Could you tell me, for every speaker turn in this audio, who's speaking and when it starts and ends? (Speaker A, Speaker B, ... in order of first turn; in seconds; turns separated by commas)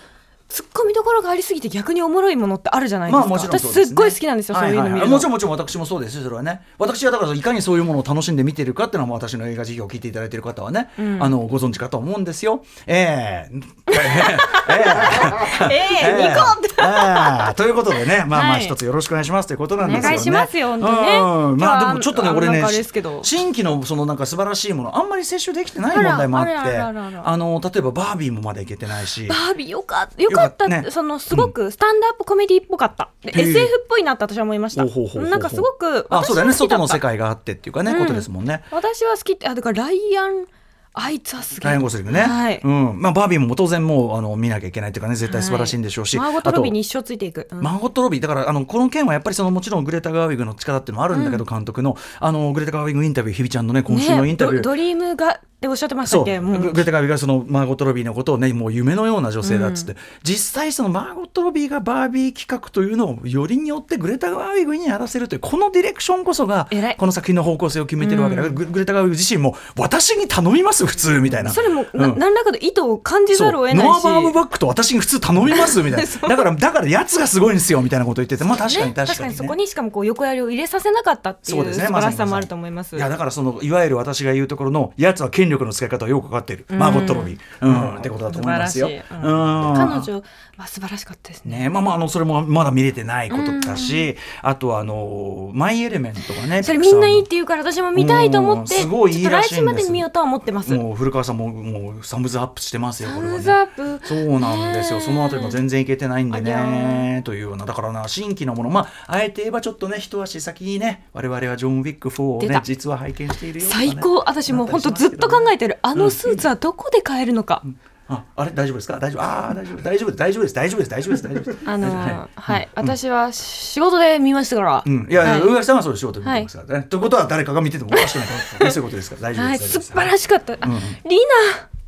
Speaker A: 0.5-5.3, Speaker B: 3.1-29.4, Speaker A: 11.0-11.3, Speaker A: 13.9-17.5, Speaker A: 18.2-18.8, Speaker A: 19.8-23.3, Speaker A: 25.9-27.3, Speaker A: 29.3-37.0, Speaker B: 30.3-31.5, Speaker B: 33.3-33.7, Speaker B: 34.8-38.7, Speaker A: 37.9-42.6, Speaker B: 41.6-46.8, Speaker A: 45.3-47.7, Speaker B: 47.6-54.7, Speaker A: 51.1-51.4, Speaker A: 53.9-56.8, Speaker B: 56.0-72.2, Speaker A: 59.4-59.9, Speaker A: 66.7-67.0, Speaker A: 68.0-68.6, Speaker A: 71.5-74.4, Speaker B: 73.3-79.6, Speaker A: 75.5-76.4, Speaker A: 78.5-83.1, Speaker B: 81.5-90.1, Speaker A: 86.7-91.6, Speaker B: 91.5-97.3, Speaker A: 93.3-94.1, Speaker A: 96.5-100.8, Speaker B: 97.9-100.1, Speaker B: 100.6-116.5, Speaker A: 103.0-105.6, Speaker A: 106.3-107.1, Speaker A: 112.4-112.7, Speaker A: 113.6-117.6, Speaker B: 117.6-123.0, Speaker A: 121.6-125.6, Speaker B: 124.8-131.0, Speaker A: 126.2-126.5, Speaker A: 127.9-128.8, Speaker A: 129.4-131.7